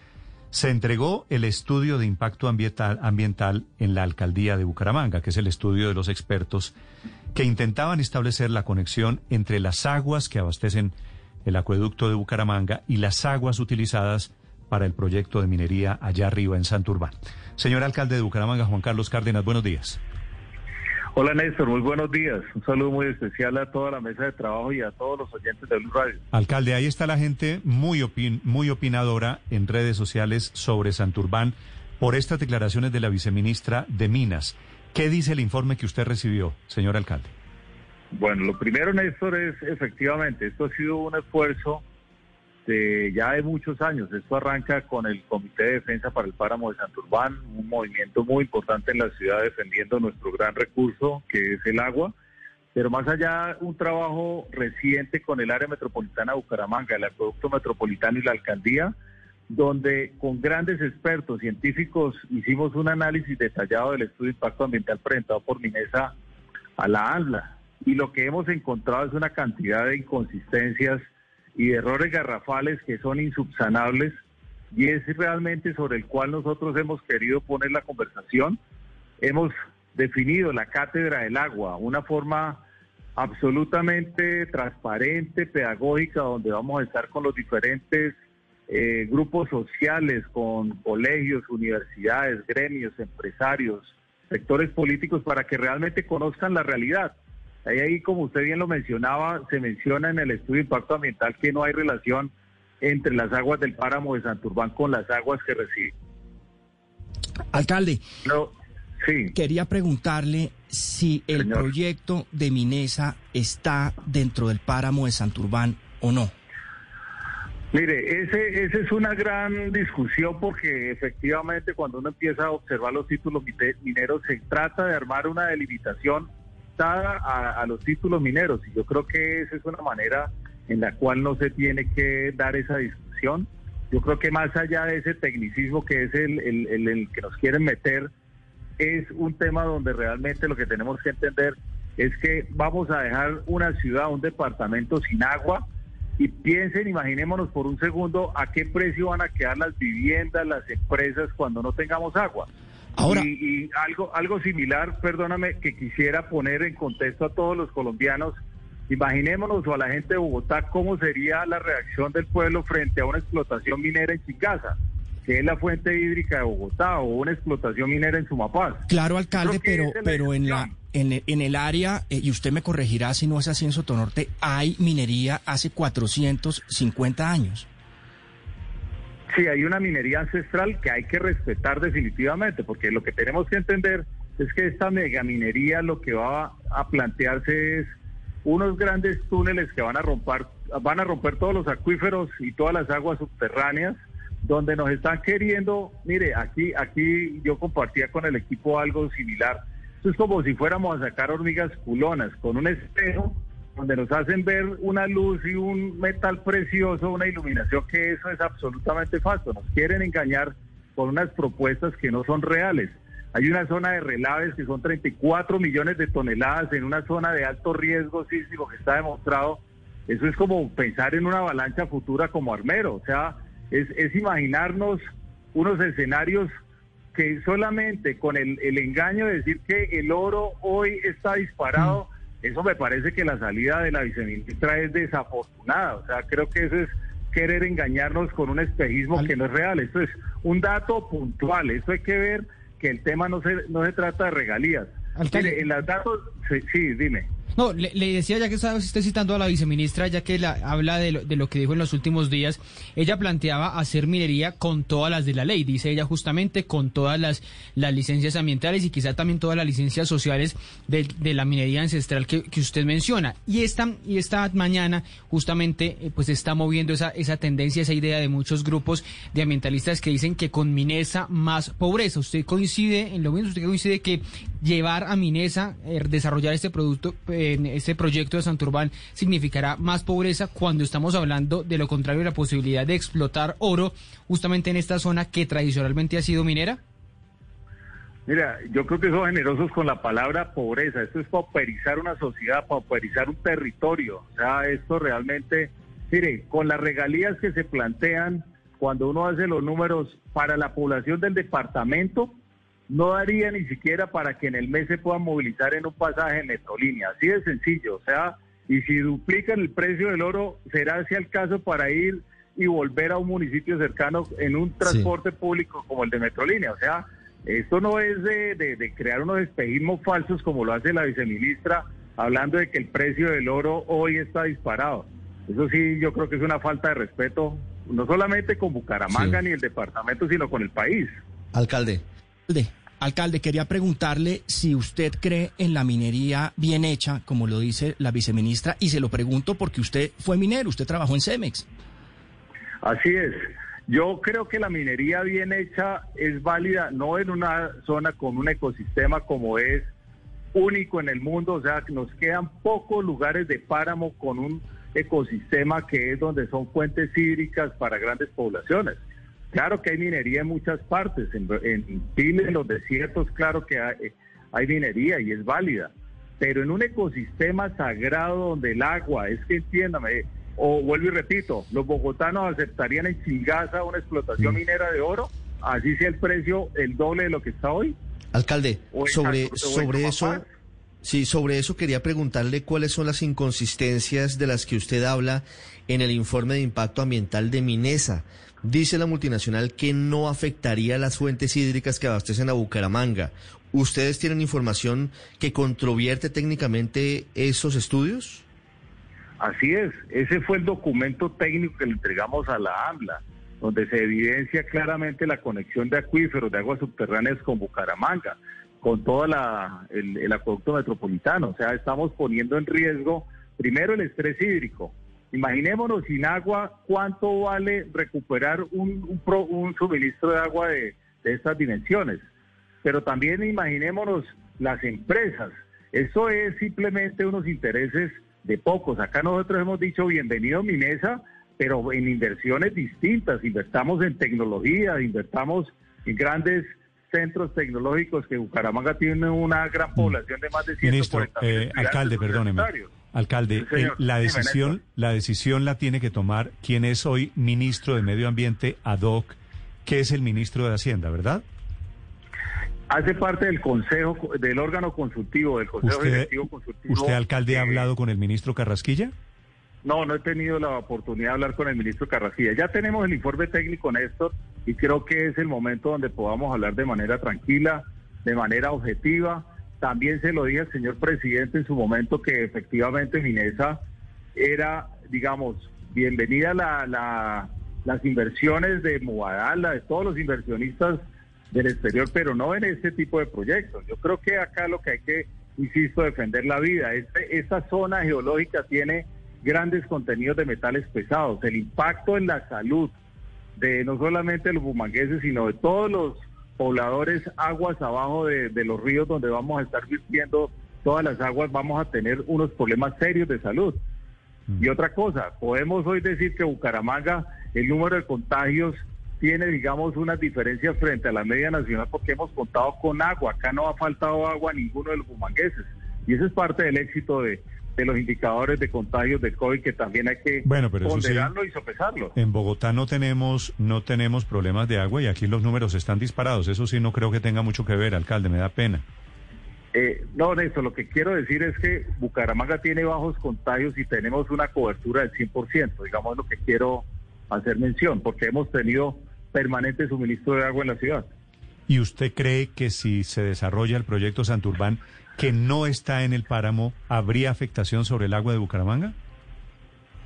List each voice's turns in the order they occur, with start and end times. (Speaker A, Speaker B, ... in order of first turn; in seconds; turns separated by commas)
Speaker A: 0.5-6.7, Speaker A: 7.3-10.9, Speaker A: 11.4-20.0, Speaker B: 21.1-26.2, Speaker A: 26.3-37.3, Speaker B: 38.1-41.8, Speaker B: 42.7-52.1, Speaker B: 52.8-58.9, Speaker B: 59.5-66.1, Speaker B: 66.8-71.0, Speaker B: 71.6-74.2, Speaker B: 74.7-78.6, Speaker B: 79.2-82.6, Speaker B: 83.2-88.2, Speaker B: 88.7-97.1, Speaker B: 97.7-105.9, Speaker C: 107.5-108.0, Speaker B: 109.0-109.3, Speaker C: 109.3-116.3, Speaker B: 117.7-138.1, Speaker B: 138.8-145.6, Speaker B: 146.2-152.5, Speaker C: 153.0-153.3, Speaker B: 153.1-158.3, Speaker B: 158.9-168.8, Speaker C: 168.9-177.7, Speaker B: 169.4-170.7, Speaker B: 179.3-187.9, Speaker B: 188.4-226.5, Speaker B: 227.1-247.3, Speaker D: 245.2-245.5, Speaker D: 247.6-281.3, Speaker B: 278.8-279.7, Speaker B: 280.5-284.4, Speaker D: 281.9-286.8, Speaker B: 288.3-302.3, Speaker B: 302.9-331.1, Speaker E: 331.5-332.0, Speaker C: 332.5-341.7, Speaker B: 342.8-349.9, Speaker B: 350.5-359.0, Speaker B: 359.5-378.0, Speaker E: 378.3-380.4, Speaker B: 378.9-380.4, Speaker E: 381.0-398.4, Speaker B: 399.4-422.2, Speaker B: 422.8-442.9, Speaker A: 440.8-451.4, Speaker B: 443.6-444.7, Speaker B: 452.9-457.9, Speaker A: 455.8-459.1, Speaker B: 459.9-473.8, Speaker B: 474.4-481.0, Speaker B: 481.5-492.9, Speaker B: 493.6-503.8, Speaker B: 504.6-522.2, Speaker A: 520.5-521.3, Speaker A: 522.2-528.9, Speaker B: 529.7-541.1, Speaker A: 541.7-549.0